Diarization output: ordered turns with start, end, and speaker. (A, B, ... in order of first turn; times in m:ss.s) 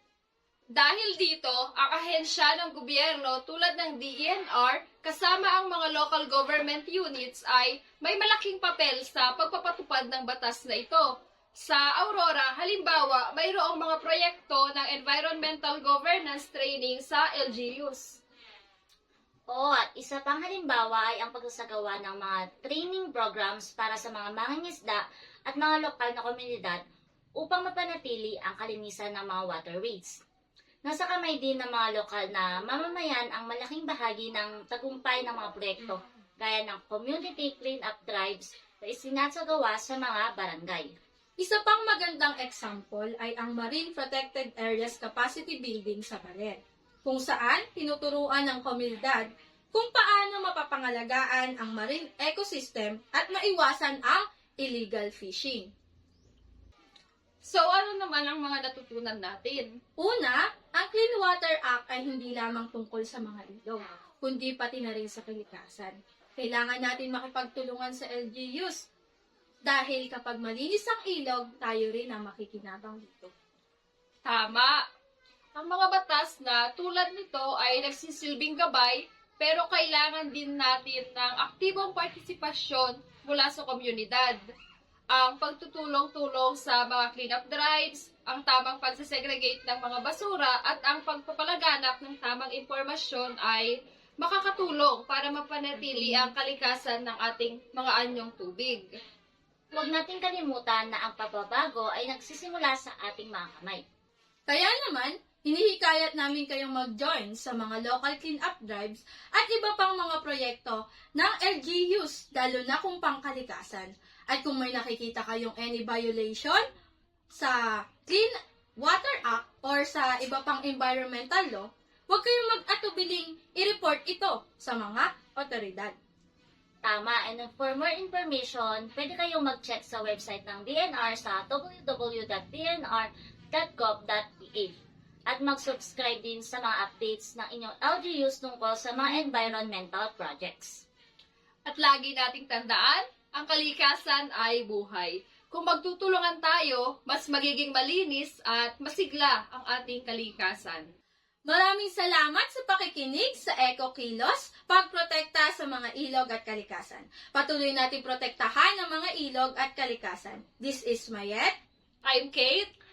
0:00.7-0:18.2 A
0:19.5-0:26.8 B
0:27.4-0:30.2 B
0:30.8-0:40.9 B
0:41.4-0:55.7 C
0:57.4-0:59.8 A
1:00.0-1:08.9 C
1:09.6-1:13.3 C
1:14.2-1:14.8 A
1:15.5-1:24.4 A
1:25.1-1:38.9 A
1:39.7-1:43.8 B
1:44.5-1:56.6 C
1:57.3-2:05.9 C
2:06.8-2:20.8 B
2:21.6-2:30.9 A
2:31.4-2:41.5 C
2:42.0-2:42.7 A